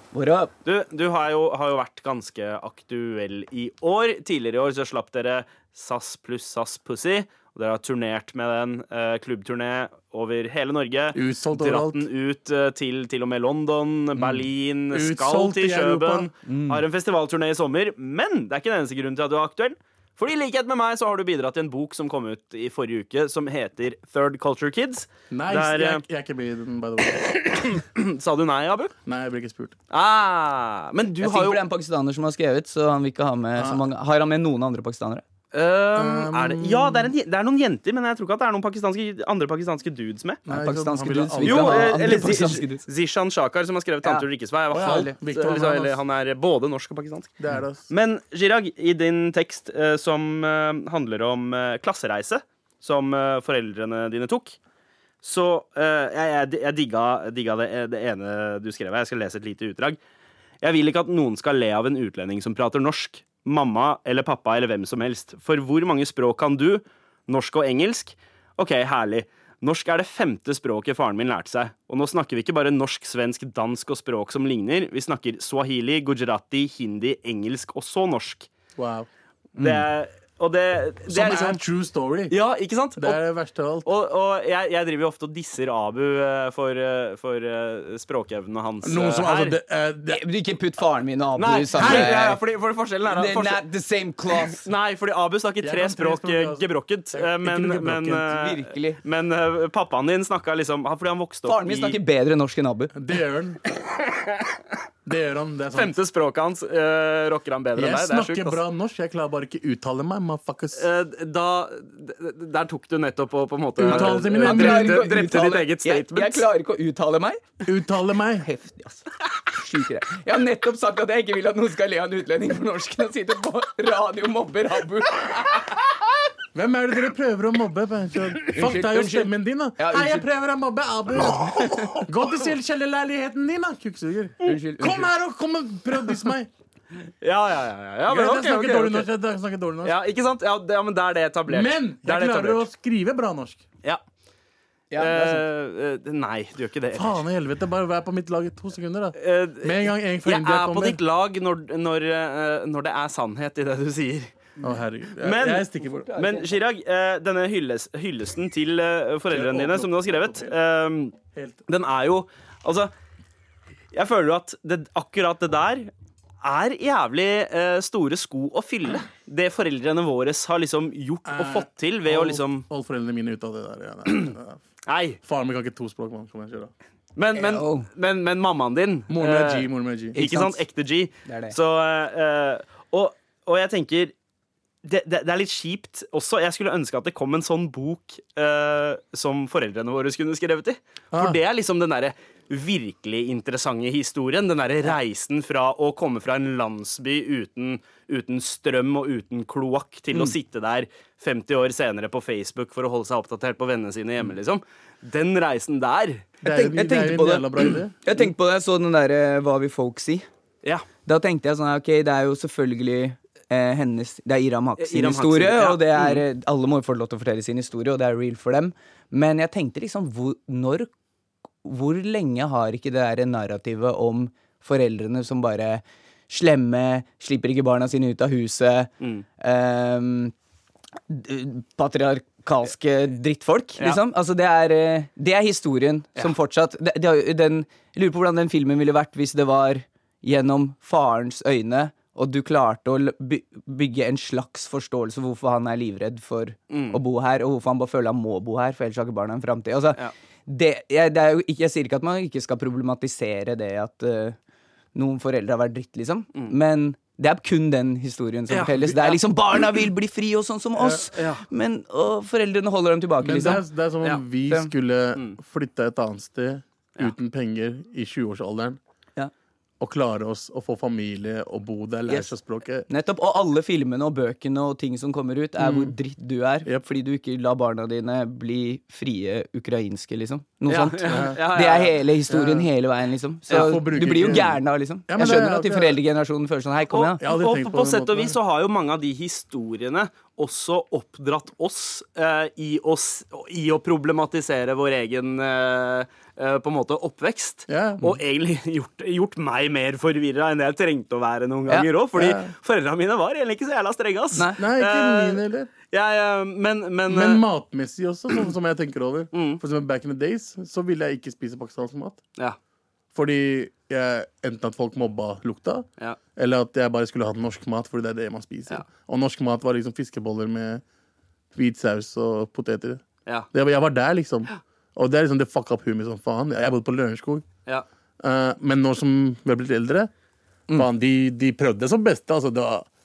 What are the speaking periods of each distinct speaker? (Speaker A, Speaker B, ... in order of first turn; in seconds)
Speaker A: 0.1-0.5, 16.4-16.8, 31.2-35.2, 40.5-42.8, 79.6-79.8, 90.1-92.4, 93.1-94.7, 98.3-99.0, 101.5-102.9, 114.3-117.5, 118.4-125.8, 128.5-130.3, 134.4-135.1, 144.9-145.4, 156.1-156.5, 177.4-177.9, 180.2-180.6, 181.2-181.6, 206.4-210.3, 211.1-220.9, 221.6-230.3, 231.1-254.4, 254.9-263.6, 272.9-287.2
Speaker B: 0.7-26.0, 27.1-28.9, 29.9-31.6, 35.5-40.4, 41.4-54.6, 55.2-60.0, 60.6-78.5, 79.6-81.6, 82.3-83.2, 83.8-89.6, 91.4-93.6, 94.4-102.0, 104.0-104.5, 105.7-108.6, 110.8-116.5, 137.2-139.1, 139.8-142.7, 145.0-147.2, 149.2-154.3, 155.2-161.2, 161.7-162.9, 163.9-165.9, 166.4-172.7, 174.9-175.2, 177.2-184.1, 184.8-206.3, 214.8-216.2, 246.7-247.0, 258.5-259.2, 261.1-261.4, 280.7-282.0, 283.5-283.8, 286.9-307.4, 309.3-309.6
Speaker C: 11.1-12.1, 14.2-16.3, 25.3-27.3, 29.1-29.8, 33.6-33.8, 36.0-37.1, 40.5-42.2, 44.7-46.0, 47.4-47.9, 78.8-79.1, 81.1-82.3, 83.0-83.9, 88.8-90.2, 91.8-92.1, 95.6-98.3, 102.9-103.6, 105.0-106.0, 107.8-110.9, 113.8-115.1, 117.7-118.5, 126.5-136.5, 138.1-140.0, 141.5-143.6, 146.9-151.0, 154.6-156.1, 159.3-160.5, 161.3-161.6, 171.3-174.6, 175.2-176.7, 179.1-180.2, 191.1-191.4, 206.4-207.9, 260.8-261.1, 263.2-268.8, 269.8-272.9, 275.6-275.9, 281.1-281.4, 282.3-282.7, 283.5-286.0, 287.2-288.4, 297.7-298.2, 302.1-302.5, 304.5-305.7, 307.1-312.2, 313.1-320.8, 321.5-327.4, 328.2-330.1, 330.7-332.9